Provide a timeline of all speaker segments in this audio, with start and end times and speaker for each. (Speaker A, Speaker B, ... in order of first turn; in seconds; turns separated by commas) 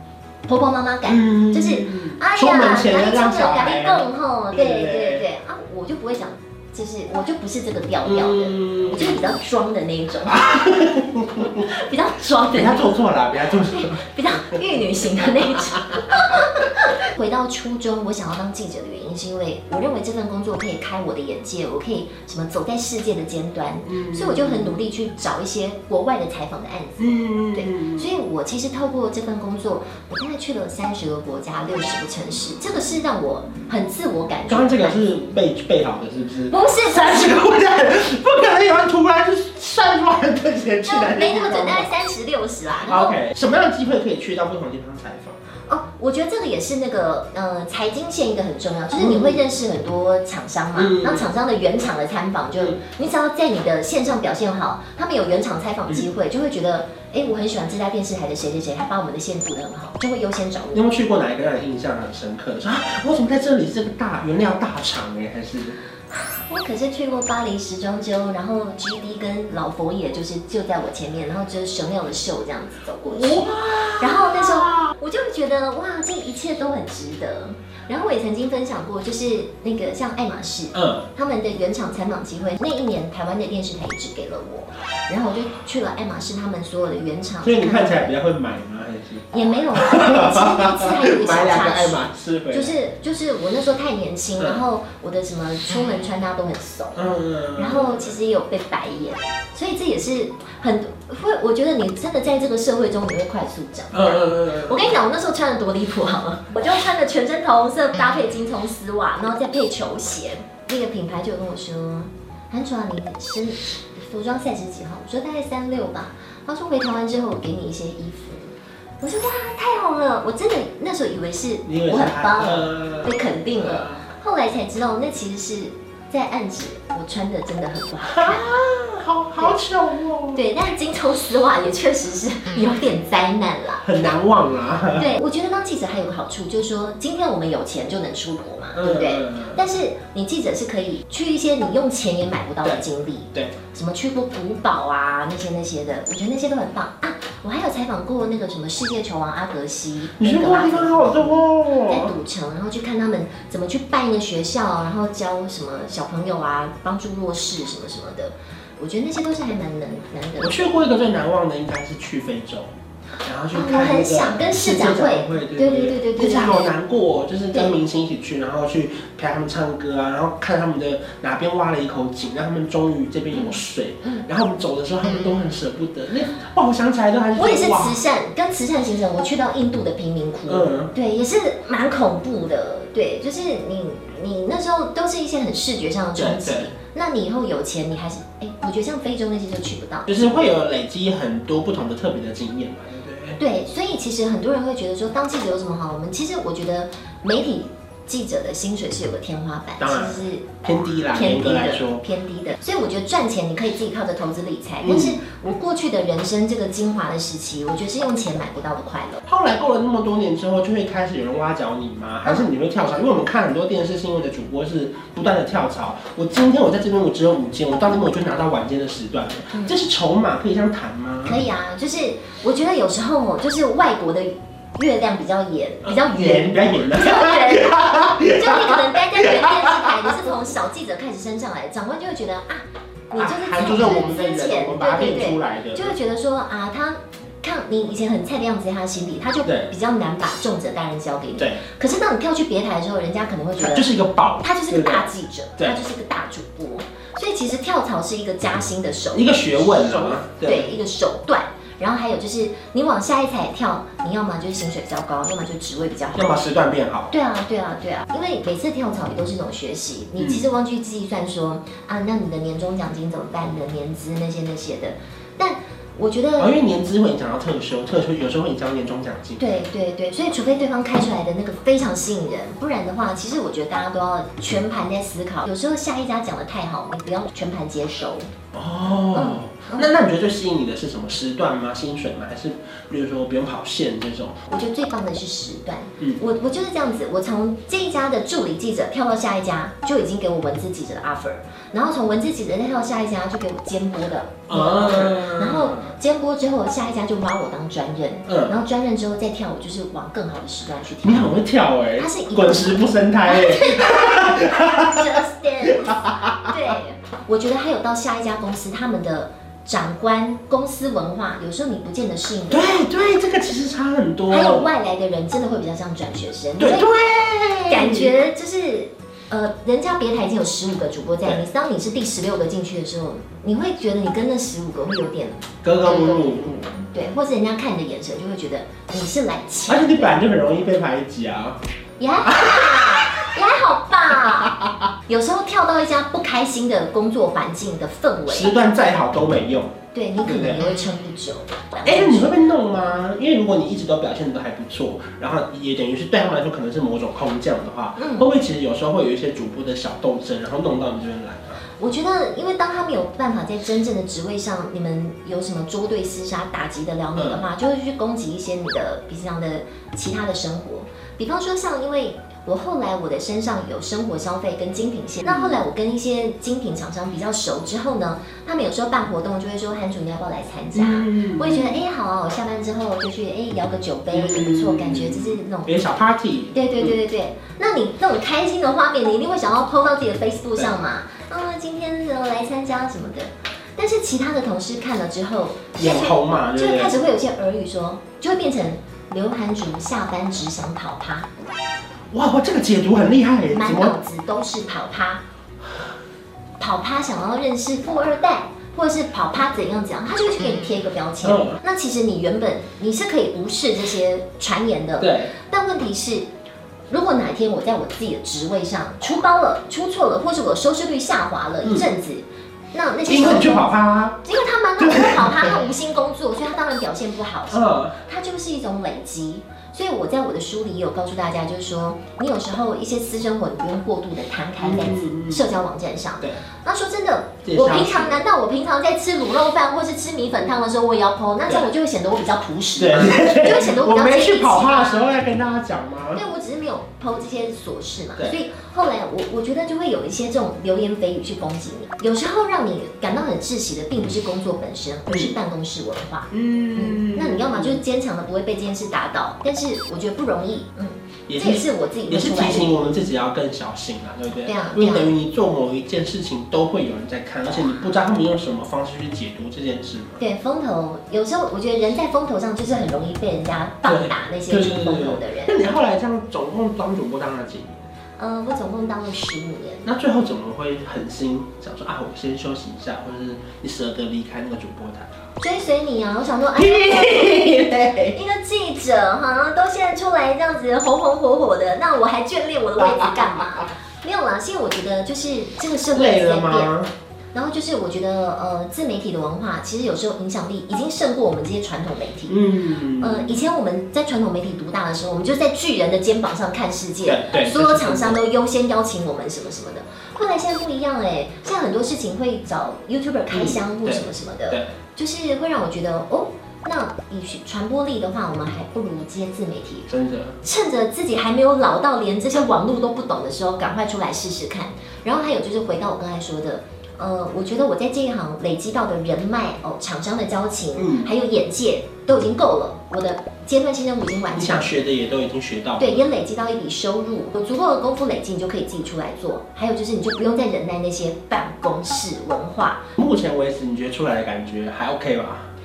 Speaker A: 0.5-10.6, Speaker B: 1.1-5.3, Speaker B: 8.1-9.4, Speaker B: 10.2-11.7, Speaker A: 11.4-12.9, Speaker B: 12.5-14.6, Speaker A: 13.6-35.0, Speaker B: 15.6-16.0, Speaker B: 23.8-24.8, Speaker B: 27.0-28.1, Speaker B: 34.5-41.9, Speaker A: 36.5-37.5, Speaker A: 40.8-43.2, Speaker B: 42.8-45.4, Speaker A: 45.7-60.9, Speaker B: 49.0-49.4, Speaker B: 50.8-51.3, Speaker B: 60.7-65.8, Speaker A: 66.1-88.1, Speaker B: 73.1-74.9, Speaker B: 80.7-81.1, Speaker B: 87.4-92.8, Speaker A: 89.3-128.5, Speaker B: 97.0-98.2, Speaker B: 103.9-105.0, Speaker B: 121.7-124.0, Speaker B: 128.1-130.4, Speaker A: 130.3-133.8, Speaker B: 133.8-135.1, Speaker A: 134.9-160.9, Speaker B: 138.8-139.6, Speaker B: 150.2-152.1, Speaker B: 160.4-162.7, Speaker B: 163.2-178.0, Speaker A: 163.5-166.7, Speaker A: 173.3-174.3, Speaker A: 177.3-190.4, Speaker B: 180.5-180.9, Speaker B: 186.2-186.7, Speaker B: 190.1-193.4, Speaker A: 193.4-200.6, Speaker B: 199.8-202.0, Speaker A: 201.1-209.2, Speaker B: 204.8-205.2, Speaker B: 209.3-221.4, Speaker A: 221.2-243.9, Speaker B: 225.8-230.3, Speaker B: 233.2-236.0, Speaker B: 239.4-239.7, Speaker B: 241.4-241.6, Speaker B: 243.6-245.1, Speaker A: 244.4-256.4, Speaker B: 249.1-250.7, Speaker B: 256.1-257.1, Speaker A: 257.1-266.5, Speaker B: 260.2-260.5, Speaker B: 266.4-269.4, Speaker A: 269.4-278.3, Speaker B: 278.5-284.4, Speaker A: 279.1-279.9, Speaker A: 284.5-301.4, Speaker B: 294.5-295.9, Speaker B: 298.3-298.5, Speaker B: 301.0-306.8, Speaker A: 302.0-312.9, Speaker B: 312.5-314.7, Speaker A: 314.3-316.9, Speaker B: 316.6-318.1, Speaker A: 317.7-330.2, Speaker B: 325.6-326.5, Speaker B: 329.7-331.6, Speaker A: 332.0-334.6, Speaker B: 332.2-333.2, Speaker B: 334.5-334.8, Speaker A: 335.1-338.6, Speaker B: 338.3-340.6, Speaker A: 339.9-342.4, Speaker B: 341.9-351.6, Speaker A: 348.0-348.3, Speaker A: 351.8-375.8, Speaker B: 357.1-357.4, Speaker B: 365.2-365.6, Speaker B: 370.7-371.8, Speaker B: 374.1-377.0, Speaker A: 376.5-391.3, Speaker B: 385.8-387.0, Speaker B: 392.1-394.0, Speaker A: 393.5-395.2, Speaker A: 396.6-406.3, Speaker B: 401.2-401.6, Speaker B: 405.0-405.3, Speaker A: 406.9-413.7, Speaker B: 411.6-411.9, Speaker B: 413.1-414.2, Speaker A: 414.2-435.2, Speaker B: 414.8-415.6, Speaker B: 417.5-418.0, Speaker B: 424.6-425.5, Speaker B: 427.4-428.2, Speaker B: 432.8-436.2, Speaker A: 436.1-452.8, Speaker B: 445.1-445.4, Speaker B: 446.3-447.8, Speaker B: 451.3-460.2, Speaker A: 454.4-455.1, Speaker A: 460.2-465.5, Speaker B: 463.9-467.9, Speaker A: 468.2-469.9, Speaker B: 469.9-475.1, Speaker A: 475.4-486.7, Speaker B: 476.6-478.1, Speaker B: 482.8-483.7, Speaker B: 485.9-486.9, Speaker A: 487.3-492.4, Speaker B: 492.3-493.4, Speaker A: 493.0-509.9, Speaker B: 497.1-498.2, Speaker B: 503.3-504.7, Speaker B: 509.9-510.4, Speaker A: 510.4-524.7, Speaker B: 520.8-521.1, Speaker B: 524.4-526.0, Speaker A: 525.8-532.9, Speaker B: 533.0-535.5